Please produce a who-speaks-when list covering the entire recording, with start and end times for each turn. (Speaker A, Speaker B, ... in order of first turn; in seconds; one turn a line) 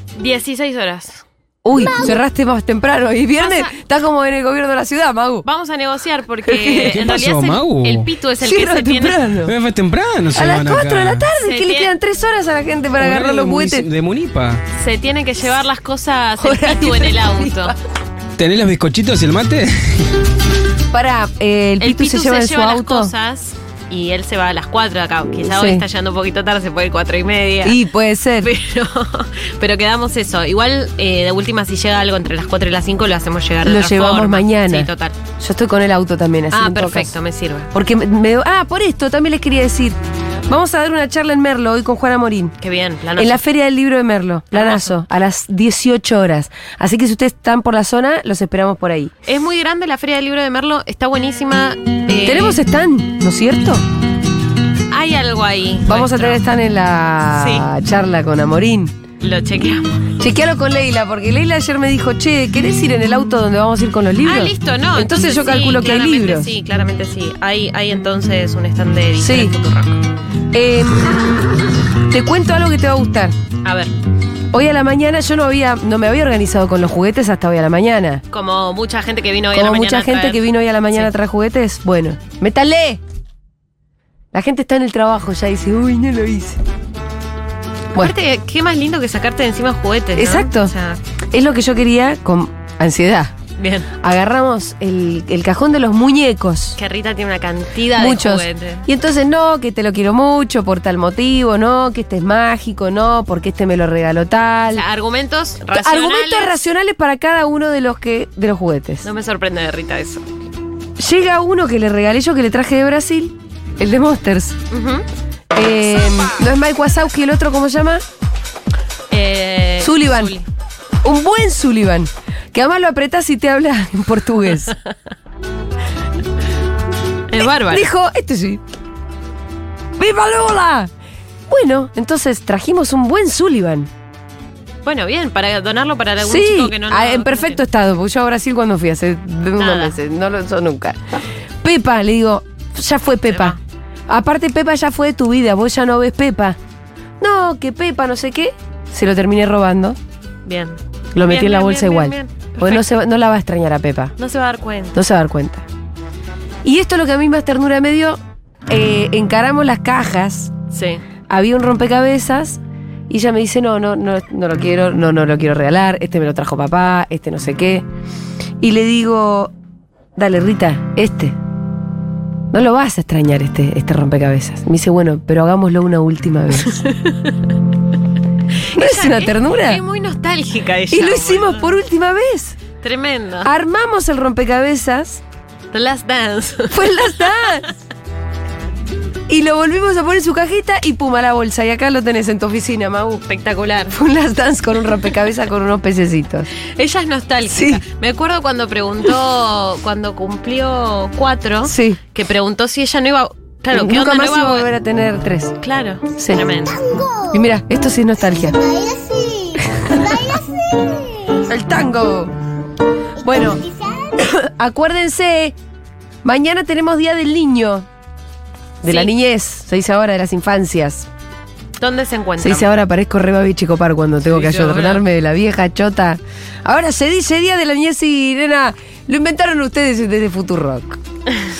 Speaker A: 0.1-1.2
Speaker B: 1.6-5.5
Speaker A: 3.4-3.7
Speaker A: 5.4-9.2
Speaker B: 6.4-6.9
Speaker C: 6.8-8.1
Speaker B: 8.4-9.5
Speaker C: 9.4-11.2
Speaker B: 10.3-13.9
Speaker A: 11.4-11.9
Speaker C: 13.0-14.6
Speaker A: 14.8-17.8
Speaker B: 16.4-17.8
Speaker C: 18.4-20.1
Speaker B: 20.9-23.1
Speaker A: 21.8-27.8
Speaker B: 25.4-25.8
Speaker B: 27.6-28.5
Speaker A: 28.4-35.2
Speaker B: 33.6-34.9
Speaker B: 35.4-37.1
Speaker A: 36.5-37.7
Speaker B: 37.7-40.0
Speaker B: 40.5-42.5
Speaker A: 42.6-43.4
Speaker B: 43.1-49.1
Speaker A: 44.5-44.9
Speaker A: 49.2-52.6
Speaker B: 52.2-53.8
Speaker A: 54.9-56.4
Speaker B: 55.8-59.0
Speaker A: 57.3-57.7
Speaker A: 59.2-60.1
Speaker B: 60.2-66.5
Speaker A: 64.2-70.0
Speaker B: 69.2-69.5
Speaker B: 70.5-73.3
Speaker A: 73.6-73.9
Speaker B: 74.5-78.2
Speaker A: 78.3-81.1
Speaker B: 79.5-83.0
Speaker B: 84.3-86.6
Speaker A: 87.9-91.0
Speaker B: 90.1-90.7
Speaker B: 91.3-93.3
Speaker A: 93.6-93.9
Speaker B: 93.9-96.8
Speaker A: 96.8-98.8
Speaker B: 97.9-104.8
Speaker A: 104.7-106.6
Speaker B: 105.7-109.0
Speaker A: 109.0-110.2
Speaker B: 111.0-114.6
Speaker A: 114.7-115.0
Speaker B: 115.5-118.0
Speaker A: 119.1-120.5
Speaker B: 119.8-120.3
Speaker B: 121.0-124.7
Speaker A: 127.3-127.8
Speaker B: 127.7-128.6
Speaker B: 130.0-130.9
Speaker B: 131.5-133.9
Speaker A: 134.8-137.6
Speaker B: 136.2-141.0
Speaker A: 139.6-140.0
Speaker B: 141.6-143.6
Speaker A: 143.3-143.6
Speaker B: 144.1-146.6
Speaker B: 147.2-150.0
Speaker A: 150.4-152.8
Speaker B: 151.1-154.1
Speaker A: 154.2-155.0
Speaker B: 154.9-155.6
Speaker B: 156.6-160.5
Speaker A: 160.7-161.0
Speaker B: 161.3-167.8
Speaker B: 168.6-169.5
Speaker B: 170.2-171.3
Speaker B: 172.5-176.8
Speaker A: 176.8-177.1
Speaker A: 178.7-181.7
Speaker B: 178.7-179.8
Speaker B: 180.9-182.6
Speaker A: 182.8-183.5
Speaker B: 183.4-185.2
Speaker A: 185.7-187.7
Speaker B: 186.7-187.7
Speaker B: 189.3-193.2
Speaker A: 193.3-193.9
Speaker B: 193.9-196.5
Speaker A: 196.7-204.7
Speaker B: 197.5-197.8
Speaker B: 201.6-202.0
Speaker B: 203.7-205.6
Speaker A: 205.6-207.0
Speaker B: 206.2-206.4
Speaker B: 207.1-210.4
Speaker B: 211.3-212.3
Speaker B: 213.2-215.6
Speaker B: 216.2-217.8
Speaker B: 218.8-221.1
Speaker A: 218.9-219.1
Speaker A: 221.8-222.7
Speaker B: 222.4-231.0
Speaker A: 224.2-225.0